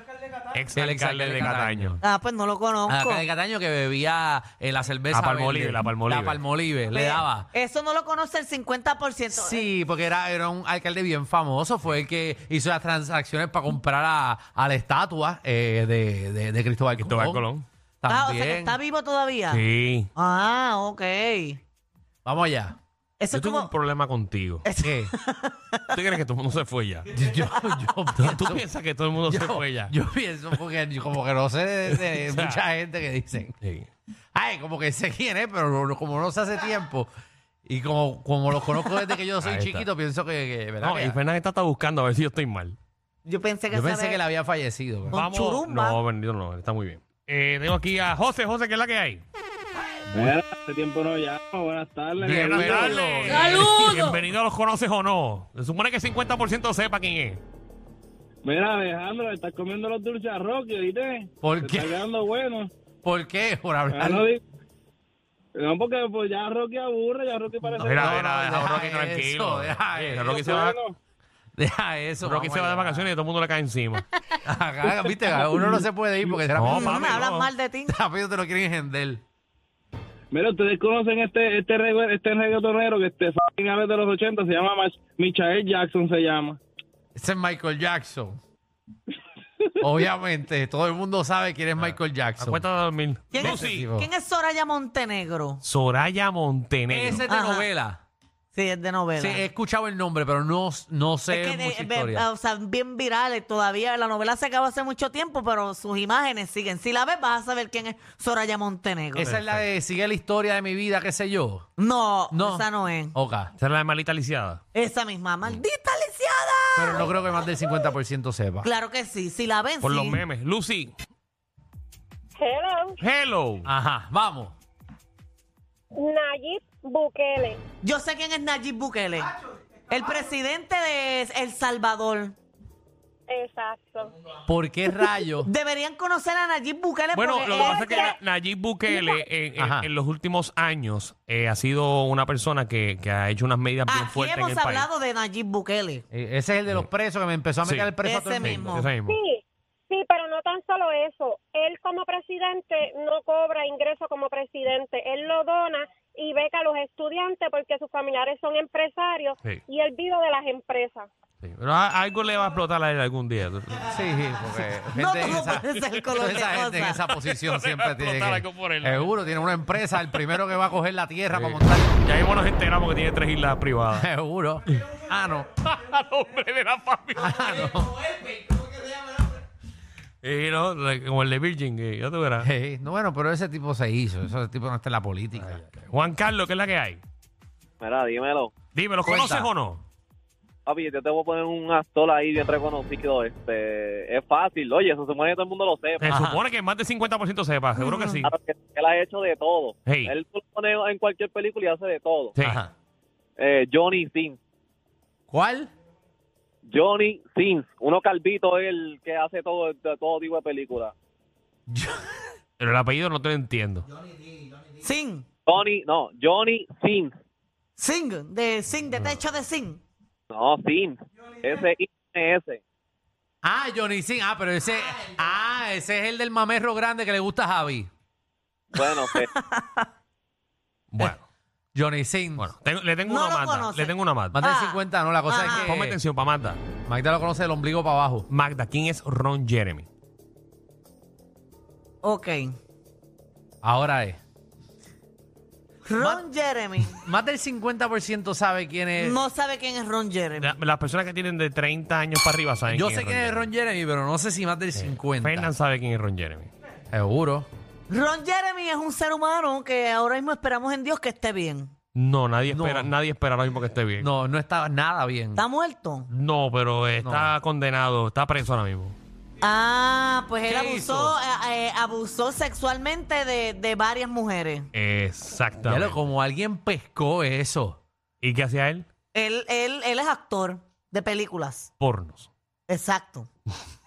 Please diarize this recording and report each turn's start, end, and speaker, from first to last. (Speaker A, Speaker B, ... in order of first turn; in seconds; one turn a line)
Speaker A: 0.5-2.0
Speaker B: 0.7-2.0
Speaker C: 2.0-3.2
Speaker B: 2.9-7.5
Speaker A: 5.1-6.4
Speaker C: 6.9-9.7
Speaker B: 9.3-17.4
Speaker A: 17.0-17.6
Speaker B: 18.0-18.8
Speaker C: 18.1-19.6
Speaker A: 19.5-20.1
Speaker C: 20.1-21.6
Speaker B: 22.2-22.8
Speaker C: 23.2-23.7
Speaker A: 23.3-24.6
Speaker C: 24.6-25.9
Speaker B: 24.8-25.1
Speaker A: 25.9-27.1
Speaker B: 27.1-28.6
Speaker A: 28.2-29.9
Speaker B: 29.3-33.5
Speaker A: 31.9-32.6
Speaker A: 33.6-33.9
Speaker B: 34.3-37.1
Speaker B: 37.6-41.2
Speaker A: 39.4-39.9
Speaker A: 40.8-42.8
Speaker C: 43.2-44.2
Speaker B: 43.7-45.2
Speaker C: 45.1-46.0
Speaker A: 45.1-49.2
Speaker D: 50.1-53.1
Speaker B: 52.2-54.1
Speaker A: 52.2-57.4
Speaker D: 58.4-62.7
Speaker B: 61.4-62.0
Speaker B: 63.0-64.3
Speaker D: 63.9-64.4
Speaker D: 65.5-68.3
Speaker B: 67.8-70.5
Speaker A: 67.8-70.8
Speaker D: 70.2-71.0
Speaker B: 71.6-73.1
Speaker A: 72.2-74.0
Speaker B: 74.4-77.2
Speaker A: 76.5-77.5
Speaker C: 76.7-78.0
Speaker B: 77.8-79.2
Speaker D: 80.3-86.6
Speaker B: 87.2-88.4
Speaker B: 89.8-92.6
Speaker A: 91.8-93.9
Speaker C: 93.3-95.6
Speaker B: 93.3-94.1
Speaker A: 95.6-97.2
Speaker B: 96.9-98.0
Speaker C: 97.3-97.7
Speaker C: 98.5-99.5
Speaker B: 99.2-102.2
Speaker C: 101.3-109.3
Speaker B: 109.1-111.7
Speaker A: 109.2-109.6
Speaker C: 111.8-113.1
Speaker B: 112.3-113.5
Speaker A: 113.6-114.6
Speaker C: 114.7-117.1
Speaker B: 116.8-118.7
Speaker C: 118.6-120.2
Speaker A: 119.8-120.9
Speaker E: 122.4-123.0
Speaker A: 123.0-123.7
Speaker B: 123.6-124.5
Speaker E: 125.9-127.6
Speaker C: 127.8-129.3
Speaker C: 129.9-132.3
Speaker E: 133.3-134.2
Speaker B: 134.4-135.5
Speaker C: 135.4-138.1
Speaker A: 137.1-144.8
Speaker E: 137.5-138.1
Speaker B: 139.6-139.9
Speaker C: 143.9-146.0
Speaker B: 146.1-148.8
Speaker A: 147.6-149.2
Speaker C: 148.0-148.9
Speaker E: 149.1-161.1
Speaker A: 161.4-164.0
Speaker B: 163.9-171.9
Speaker C: 164.9-167.0
Speaker A: 167.1-169.1
Speaker A: 171.3-174.1
Speaker B: 173.9-175.6
Speaker A: 175.6-177.8
Speaker B: 177.2-178.0
Speaker A: 180.2-182.5
Speaker B: 182.4-185.6
Speaker A: 185.4-187.0
Speaker F: 187.8-188.6
Speaker A: 188.7-189.8
Speaker B: 189.0-189.5
Speaker F: 190.7-196.1
Speaker A: 196.0-198.3
Speaker B: 196.1-196.4
Speaker C: 197.8-198.2
Speaker F: 198.2-202.3
Speaker A: 199.8-200.2
Speaker A: 202.3-202.6
Speaker B: 202.4-202.7
Speaker F: 203.4-204.4
Speaker B: 205.3-205.7
Speaker F: 206.6-210.9
Speaker B: 211.7-212.3
Speaker A: 212.6-213.8
Speaker C: 214.8-215.2
Speaker F: 215.5-217.1
Speaker C: 217.8-219.8
Speaker F: 220.3-222.6
Speaker B: 223.4-227.9
Speaker F: 228.7-229.3
Speaker C: 228.8-229.9
Speaker A: 230.9-231.2
Speaker B: 231.7-232.5
Speaker A: 232.4-234.4
Speaker C: 233.0-235.7
Speaker B: 234.3-236.0
Speaker A: 235.6-236.6
Speaker B: 236.8-238.3
Speaker A: 238.3-239.9
Speaker C: 242.0-242.5
Speaker B: 243.6-244.2
Speaker C: 245.8-247.0
Speaker B: 246.0-246.2
Speaker B: 246.9-249.2
Speaker C: 249.0-250.5
Speaker A: 250.4-253.5
Speaker B: 252.7-255.5
Speaker A: 254.7-256.5
Speaker B: 256.9-257.5
Speaker C: 257.9-261.7
Speaker A: 261.9-264.1
Speaker B: 262.5-262.9
Speaker B: 264.0-265.4
Speaker C: 265.3-266.1
Speaker A: 266.1-268.9
Speaker B: 267.0-267.3
Speaker C: 269.4-274.7
Speaker B: 270.5-271.1
Speaker A: 274.7-276.0
Speaker B: 275.6-277.8
Speaker A: 278.2-278.9
Speaker C: 279.1-281.7
Speaker A: 281.8-282.3
Speaker C: 282.7-283.3